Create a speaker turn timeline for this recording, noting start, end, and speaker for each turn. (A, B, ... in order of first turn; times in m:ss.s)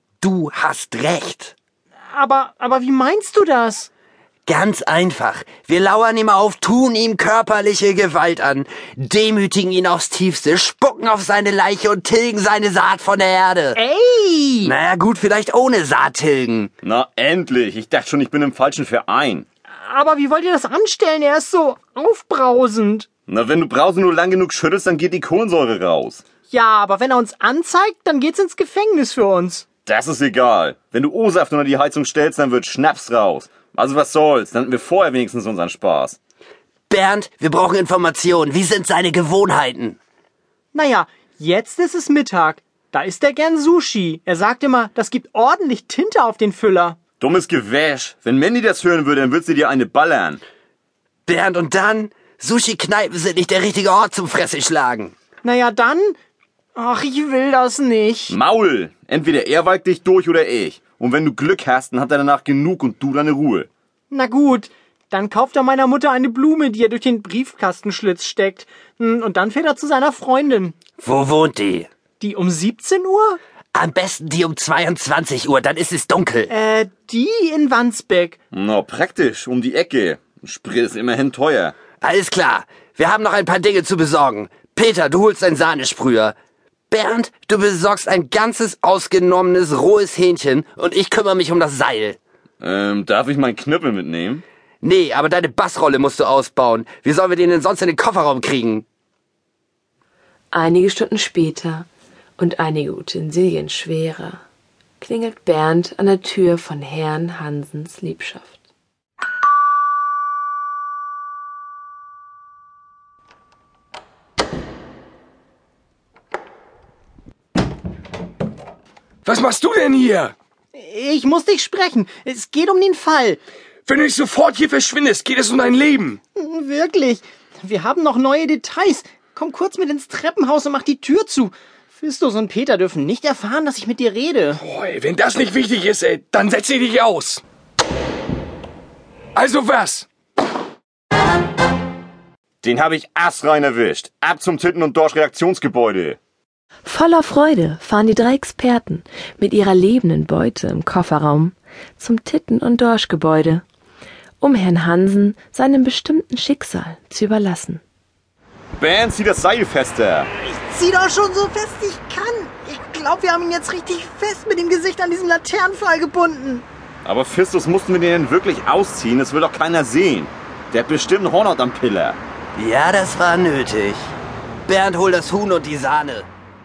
0:00.2-0:01.6 A
0:02.1-0:03.9 B
0:04.4-0:13.8 A
0:13.7-0:14.7 B
0:14.6-0:16.7 A
0:16.8-0:19.4 C
0:19.7-0:23.1 B
0:23.3-0:26.2 C
0:26.5-0:29.7 B
0:29.8-0:36.2 C
0:36.9-0:40.0 A
0:40.7-0:47.0 B
0:47.2-0:50.4 C
0:51.3-0:55.1 A
0:55.4-0:56.2 B
0:56.7-0:58.4 B
0:58.3-1:03.7 C
1:04.1-1:10.8 B
1:11.0-1:11.9 A
1:12.2-1:13.4 B
1:13.7-1:16.5 A
1:16.5-1:18.4 B
1:18.5-1:21.7 C
1:22.0-1:26.3 A
1:26.9-1:32.2 A
1:32.6-1:34.4 C
1:34.8-1:38.8 A
1:40.5-1:44.4 D
1:45.0-1:48.6 D
1:59.2-2:00.3 E
2:00.7-2:03.4 B
2:03.8-2:06.2 E
2:06.3-2:14.6 B
2:14.6-2:17.4 E
2:19.3-2:20.1 E
2:22.6-2:26.2 C
2:26.8-2:33.6 D
2:34.4-2:37.8 D
2:38.8-2:40.3 C
2:40.4-2:46.6 B
2:47.0-2:52.2 C
2:52.6-2:54.1 A
2:54.7-2:56.3 A